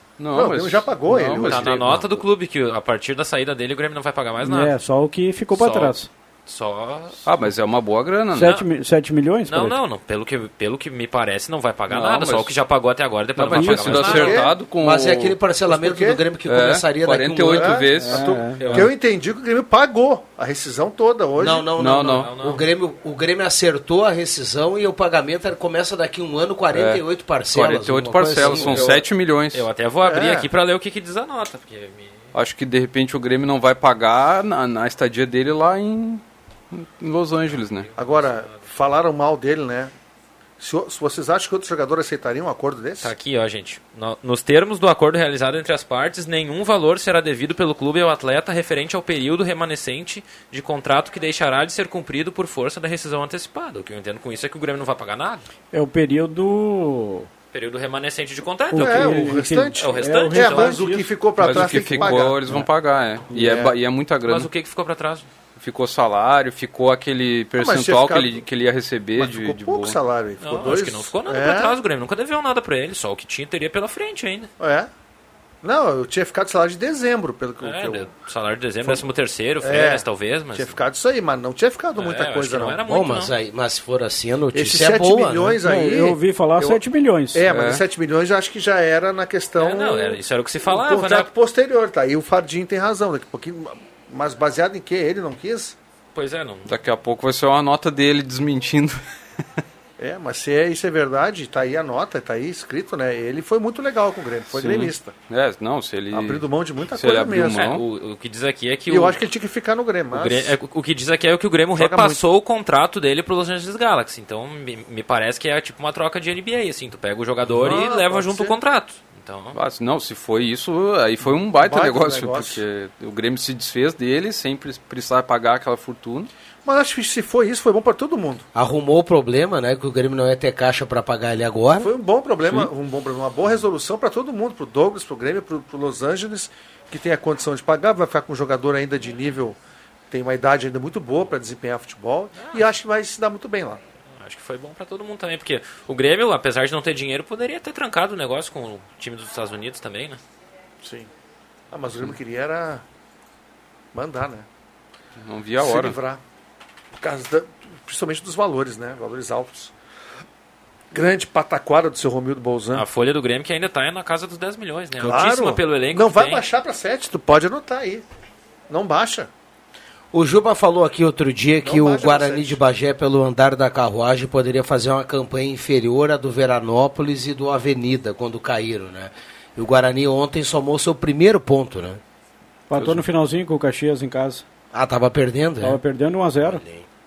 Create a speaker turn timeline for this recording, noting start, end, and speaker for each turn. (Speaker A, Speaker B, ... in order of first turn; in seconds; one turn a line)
Speaker A: 0.2-2.2
Speaker B: 0.3-1.9
Speaker C: 1.4-4.7
Speaker D: 4.4-6.1
Speaker C: 5.5-7.3
Speaker A: 7.2-8.5
Speaker D: 8.3-9.8
Speaker C: 8.4-8.7
Speaker C: 9.5-14.5
Speaker A: 11.9-12.5
Speaker A: 13.3-15.3
Speaker D: 13.5-14.2
Speaker B: 14.0-14.6
Speaker E: 14.8-17.8
Speaker B: 15.7-16.2
Speaker A: 16.4-18.9
Speaker B: 17.5-21.7
Speaker D: 17.9-18.7
Speaker C: 18.6-18.9
Speaker E: 21.4-29.0
Speaker A: 21.8-22.3
Speaker C: 22.0-22.6
Speaker A: 26.7-29.6
Speaker C: 28.4-32.3
Speaker B: 30.0-30.5
Speaker A: 32.3-37.9
Speaker C: 37.5-38.5
Speaker B: 38.0-39.9
Speaker B: 40.6-43.1
Speaker C: 43.0-55.4
Speaker D: 55.7-57.3
Speaker C: 57.5-60.8
Speaker D: 58.7-62.0
Speaker B: 58.7-62.4
Speaker A: 61.4-64.5
Speaker B: 63.3-63.7
Speaker C: 64.2-65.3
Speaker A: 65.6-70.0
Speaker B: 67.6-68.4
Speaker B: 69.2-71.8
Speaker C: 70.4-74.5
Speaker B: 74.6-74.9
Speaker B: 75.6-78.1
Speaker C: 77.6-80.8
Speaker B: 79.6-82.8
Speaker C: 82.0-83.3
Speaker E: 82.8-85.6
Speaker B: 84.5-86.8
Speaker D: 85.6-87.4
Speaker B: 87.3-95.8
Speaker A: 87.5-87.8
Speaker C: 89.6-91.3
Speaker C: 96.1-96.8
Speaker A: 96.7-99.0
Speaker B: 100.0-105.1
Speaker A: 104.5-107.8
Speaker B: 106.1-107.8
Speaker C: 107.4-109.2
Speaker B: 108.9-110.5
Speaker C: 110.1-119.6
Speaker B: 111.7-112.2
Speaker B: 117.5-118.6
Speaker A: 119.5-126.3
Speaker B: 121.5-122.6
Speaker B: 126.6-128.4
Speaker E: 128.5-131.9
Speaker B: 131.8-139.6
Speaker B: 140.1-143.8
Speaker C: 144.2-150.2
Speaker B: 150.8-151.1
Speaker B: 151.7-152.8
Speaker B: 153.9-154.4
Speaker A: 155.2-155.9
Speaker B: 155.6-156.2
Speaker B: 157.0-159.7
Speaker B: 160.9-162.8
Speaker C: 162.7-166.4
Speaker B: 165.0-168.0
Speaker B: 168.7-169.3
Speaker E: 170.1-182.0
Speaker B: 171.6-172.6
Speaker D: 182.7-184.4
Speaker A: 182.7-183.0
Speaker E: 184.7-185.8
Speaker D: 185.6-186.6
Speaker E: 186.4-186.8